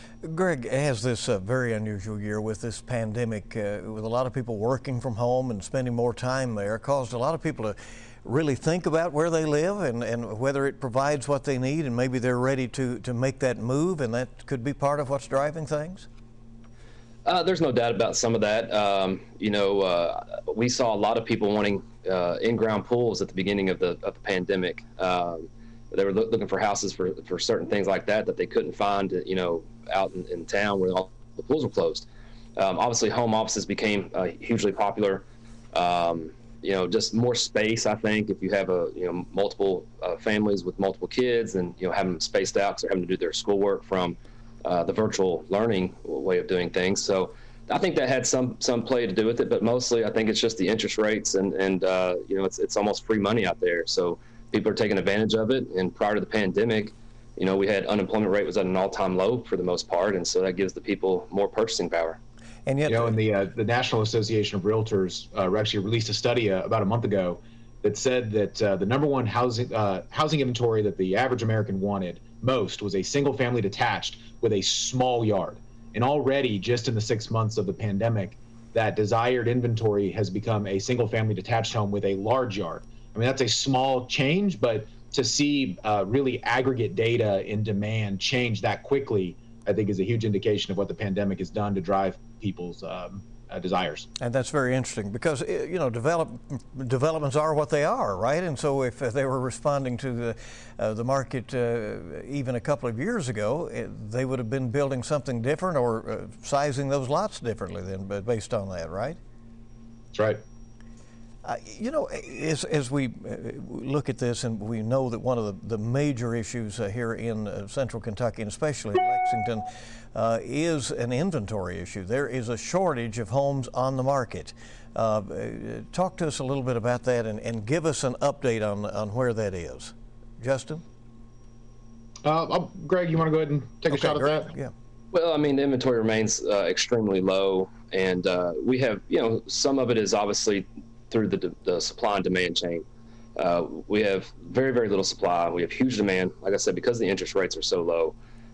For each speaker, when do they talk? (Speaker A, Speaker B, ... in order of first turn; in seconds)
Speaker A: 0.2-16.1, 62.7-63.2, 94.2-109.2, 111.4-130.8, 133.9-134.7
Speaker B: 17.2-62.2, 135.1-142.8, 143.4-148.2
Speaker C: 62.9-94.1, 110.1-110.4, 132.2-134.5